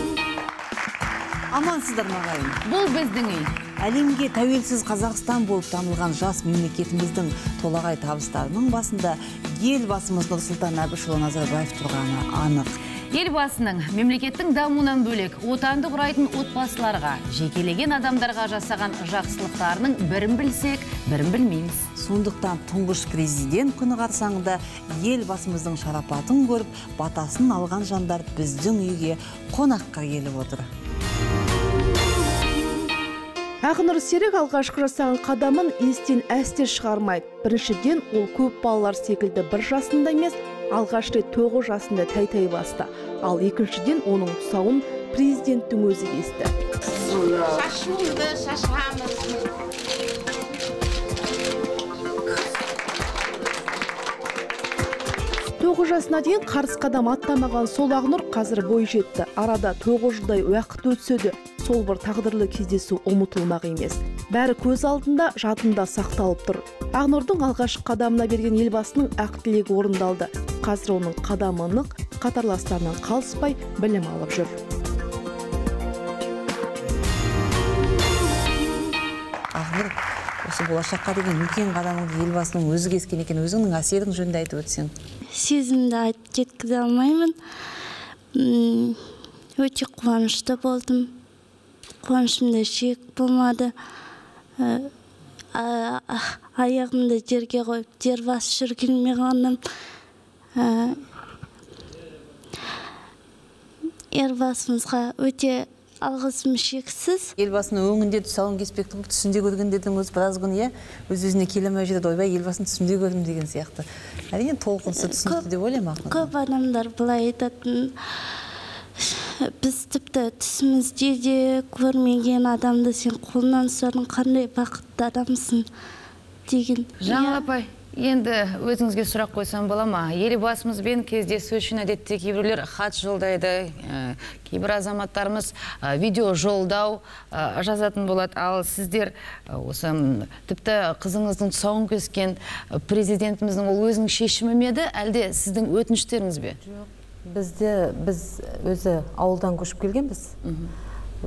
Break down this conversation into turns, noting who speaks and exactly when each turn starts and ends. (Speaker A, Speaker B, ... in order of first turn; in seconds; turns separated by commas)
Speaker A: 1.5-2.6, Speaker B: 2.6-3.6, Speaker A: 3.8-12.7, Speaker B: 13.1-21.9, Speaker A: 22.0-30.7, Speaker C: 33.6-46.5, Speaker D: 46.9-49.4, Speaker C: 55.6-74.6, Speaker A: 79.5-84.9, Speaker E: 85.3-87.3, Speaker E: 88.3-89.0, Speaker E: 89.6-91.1, Speaker E: 92.0-93.7, Speaker E: 94.6-94.9, Speaker E: 95.5-99.6, Speaker E: 100.6-101.0, Speaker E: 104.1-107.3, Speaker A: 107.4-116.3, Speaker E: 114.9-115.5, Speaker E: 116.1-118.0, Speaker E: 119.0-125.7, Speaker E: 126.5-127.5, Speaker B: 127.0-146.6, Speaker F: 146.6-150.3, Speaker B: 150.4-150.7